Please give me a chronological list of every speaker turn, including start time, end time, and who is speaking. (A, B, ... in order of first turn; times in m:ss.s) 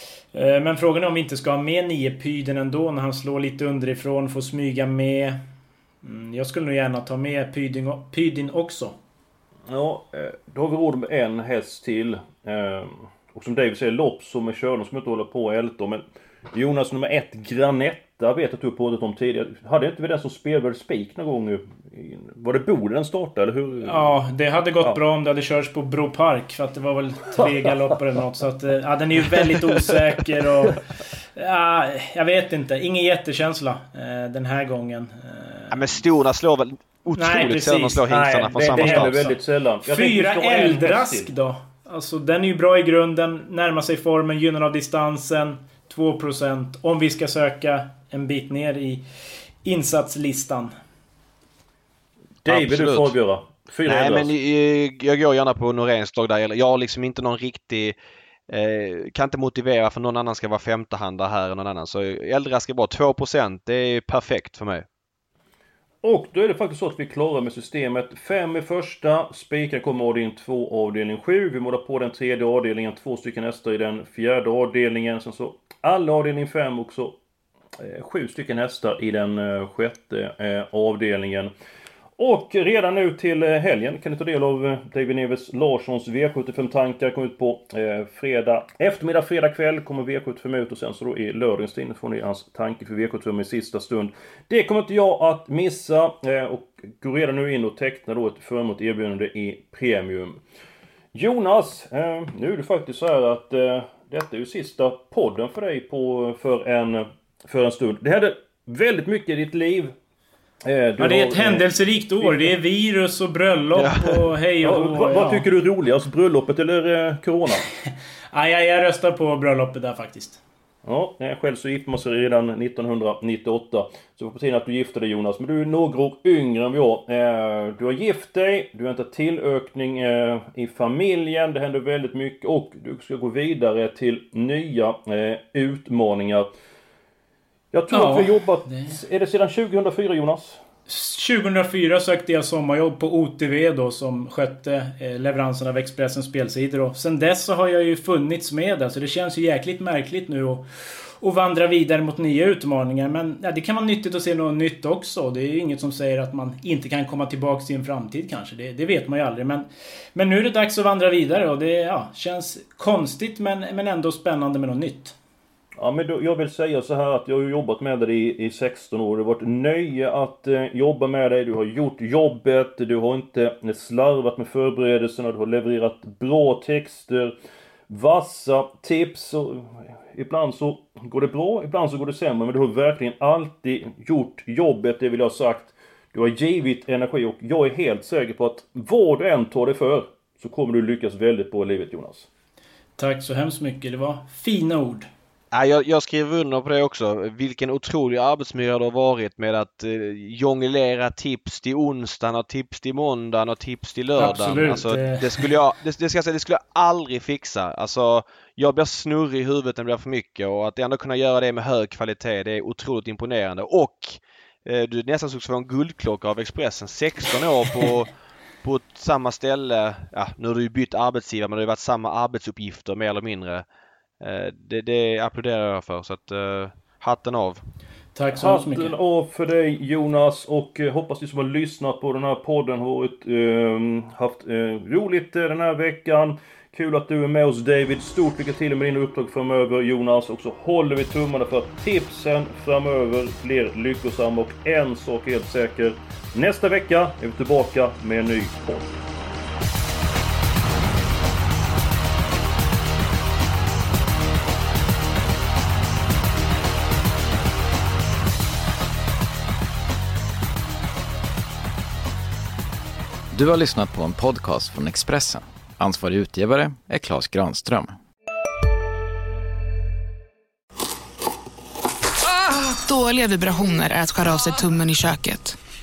0:00.3-0:05.4 A
0:06.0-0:09.0 A
0:09.7-0:24.2 B
0:23.8-0:30.8 A
0:31.4-0:35.8 A
0:35.7-0:39.2 C
0:37.2-0:38.0 A
0:38.1-0:41.3 B
0:38.6-0:49.0 A
0:49.6-0:50.8 A
0:52.4-0:54.3 B
0:52.5-0:53.2 C
0:53.9-0:58.0 C
0:58.5-1:04.9 C
1:06.0-1:17.2 B
1:17.8-1:21.5 B
1:22.2-1:40.4 B
1:41.1-1:50.0 B
1:50.6-1:51.7 B
1:51.0-1:55.4 A
1:52.2-1:52.6 B
1:53.8-1:54.2 C
1:54.6-1:57.7 B
1:58.3-2:00.4 A
2:00.8-2:16.5 B
2:17.7-2:20.6 B
2:17.9-2:19.0 A
2:20.9-2:30.7 A
2:31.2-2:45.2 A
2:45.8-2:57.4 B
2:57.9-3:12.3 B
3:13.0-3:15.1 A
3:15.5-3:38.1 C
3:24.2-3:25.5 A
3:38.6-3:43.6 C
3:44.2-3:47.6 C
3:48.2-3:49.0 A
3:48.4-4:08.9 B
4:23.3-4:28.0 D
4:32.3-4:35.6 E